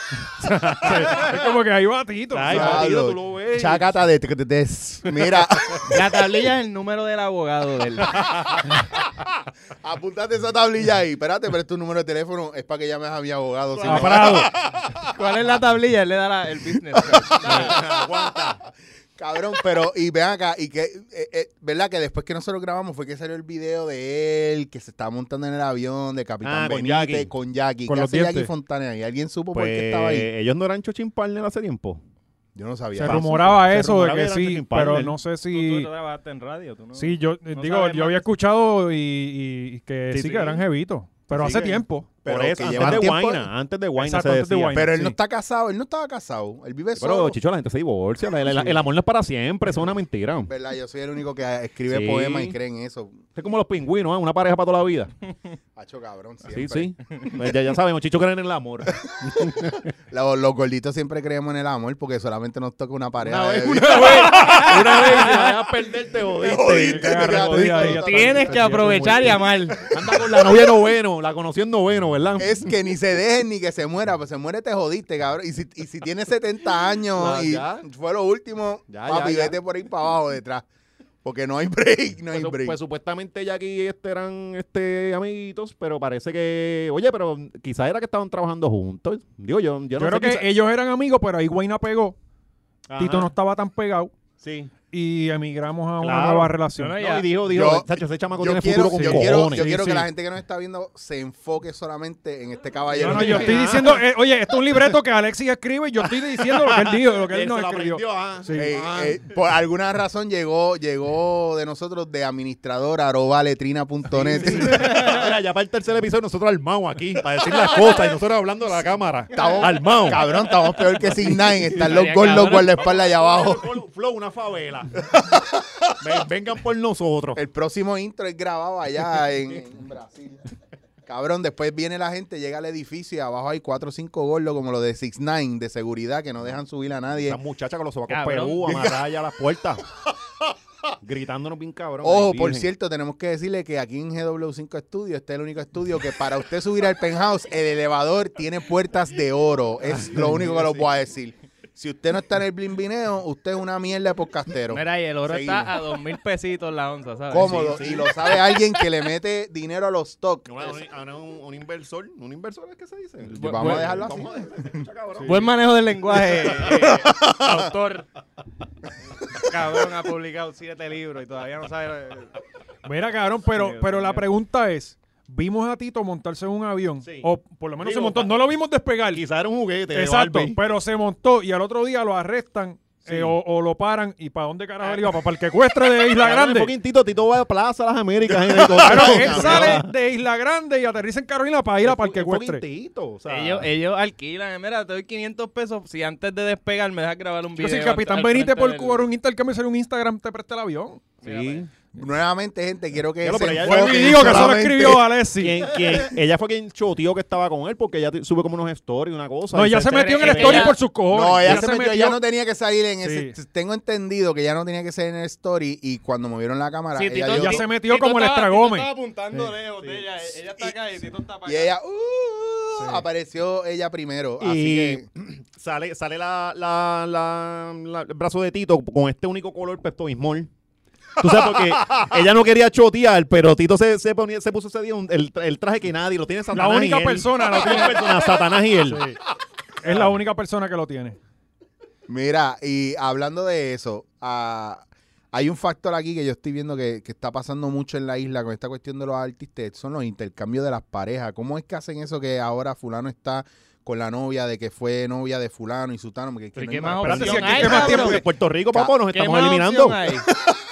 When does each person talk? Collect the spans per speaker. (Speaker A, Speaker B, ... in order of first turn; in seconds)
Speaker A: 0.4-1.4, 2.3-3.9, 5.2-5.8, 8.1-8.8, 17.3-18.6, 26.4-27.3, 29.5-32.0, 33.0-35.2, 40.1-40.6, 41.3-44.9, 47.0-50.5, 51.9-52.5, 53.4-55.1, 56.5-59.9, 63.2-72.7, 77.1-77.9, 78.9-79.6, 82.3-90.5, 92.9-93.3, 94.4-94.7, 96.0-100.0, 102.9-104.0, 106.0-109.3, 114.1-120.2, 121.0-124.9, 126.0-127.4, 137.2-139.8, 141.0-142.7, 149.8-150.8, 157.4-158.4, 160.4-165.5, 166.6-167.0, 177.0-178.4, 179.1-180.6, 183.1-183.4, 186.1-189.9, 191.8-193.7, 201.2-201.7, 203.2-204.6, 205.4-210.8, 224.4-230.5, 231.2-239.1, 257.1-260.1
Speaker B: 0.8-2.9, 13.8-14.5, 27.9-28.5, 32.9-35.9, 37.0-42.1, 42.7-43.1, 44.0-45.1, 48.5-48.8, 66.6-69.3, 90.0-92.2, 93.0-94.1, 94.9-97.0, 98.9-100.0, 103.0-108.7, 172.8-179.2, 179.9-186.7, 188.8-192.6, 197.6-201.1, 203.6-205.7, 209.5-212.2, 213.0-213.4, 217.4-218.9, 222.8-223.0, 236.5-238.1, 238.8-239.2, 239.8-241.2, 257.0-258.2
Speaker C: 2.4-6.0, 9.8-15.1, 16.9-18.4, 19.2-30.3, 32.5-33.3, 42.2-43.5, 44.7-47.4, 50.5-53.2, 55.8-56.9, 59.2-64.5, 66.4-68.9, 69.8-70.7, 72.4-80.6, 81.2-82.8, 97.5-103.7, 108.5-115.2, 119.3-123.7, 125.0-126.0, 127.3-130.5, 131.1-137.4, 142.0-155.8, 157.3-160.8, 163.2-164.9, 166.7-167.7, 188.5-189.8, 201.9-205.1, 211.1-217.7, 220.5-220.7, 221.4-225.1, 231.3-232.1, 242.1-258.0
Speaker D: 5.9-8.3, 13.7-14.4, 15.0-17.8, 35.5-38.3, 63.9-65.6, 67.9-69.8, 96.8-97.3, 114.7-115.2, 121.8-122.7, 138.1-138.9, 154.7-157.7, 163.4-164.0, 165.2-168.1, 169.4-172.3, 173.5-174.2, 193.3-199.1, 201.2-201.7, 209.9-210.8, 216.9-221.7, 256.6-258.2, 259.1-260.2